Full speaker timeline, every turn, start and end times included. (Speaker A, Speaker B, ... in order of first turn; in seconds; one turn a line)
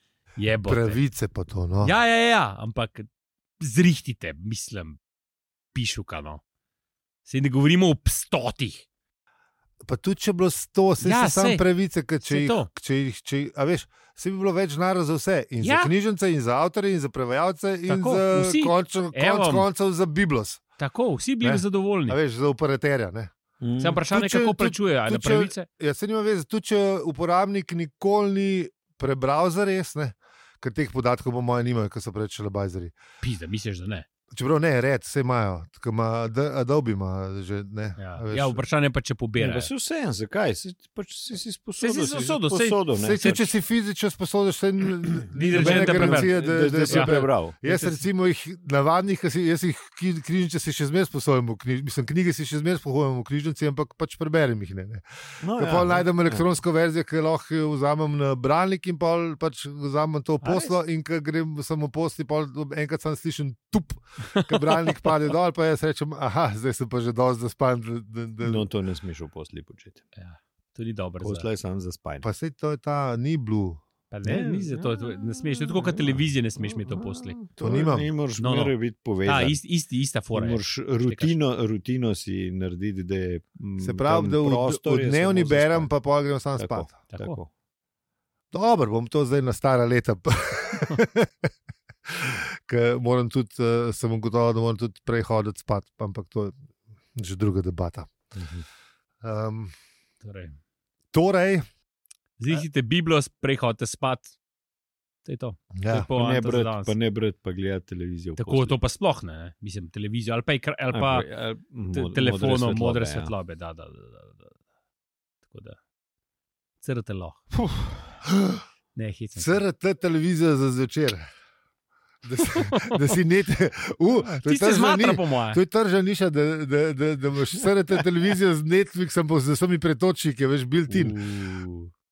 Speaker A: 0.4-1.0
Speaker B: 0.7-1.9
Speaker A: 1.8-3.1
Speaker A: 3.6-5.0
Speaker A: 5.7-6.4
Speaker A: 7.2-8.8
Speaker B: 9.8-20.6
Speaker A: 11.0-11.6
Speaker A: 12.2-12.7
Speaker A: 15.6-15.9
Speaker A: 17.9-19.7
Speaker A: 20.8-22.2
Speaker B: 21.4-23.3
Speaker C: 23.6-24.0
Speaker A: 23.8-25.7
Speaker B: 24.1-32.9
Speaker A: 33.2-34.1
Speaker B: 34.3-38.6
Speaker A: 38.0-39.7
Speaker C: 39.4-43.5
Speaker A: 41.8-43.4
Speaker B: 43.0-68.7
Speaker A: 45.3-46.3
Speaker C: 45.5-47.6
Speaker A: 46.9-48.0
Speaker C: 55.4-56.4
Speaker A: 60.4-60.8
Speaker A: 64.2-65.1
Speaker C: 68.4-70.0
Speaker A: 70.2-71.5
Speaker C: 71.2-72.3
Speaker B: 72.2-73.8
Speaker A: 74.1-77.4
Speaker C: 74.2-79.6
Speaker B: 77.6-78.1
Speaker A: 78.4-81.3
Speaker C: 80.3-85.9
Speaker B: 83.8-87.0
Speaker C: 86.6-87.5
Speaker A: 87.1-87.4
Speaker B: 88.5-91.3
Speaker B: 92.1-96.6
Speaker B: 97.1-98.1
Speaker C: 98.3-98.6
Speaker B: 99.2-99.7
Speaker A: 100.2-100.5
Speaker B: 101.1-101.6
Speaker A: 102.4-104.3
Speaker A: 105.2-106.9
Speaker B: 105.7-106.1
Speaker C: 106.1-108.8
Speaker A: 108.4-111.3
Speaker C: 110.9-113.3
Speaker A: 111.9-114.5
Speaker A: 115.5-115.8
Speaker A: 116.8-117.4
Speaker B: 118.3-118.6
Speaker A: 118.9-119.6
Speaker B: 119.4-121.2
Speaker B: 122.2-131.2
Speaker A: 122.4-123.0
Speaker A: 124.3-125.6
Speaker A: 130.9-131.9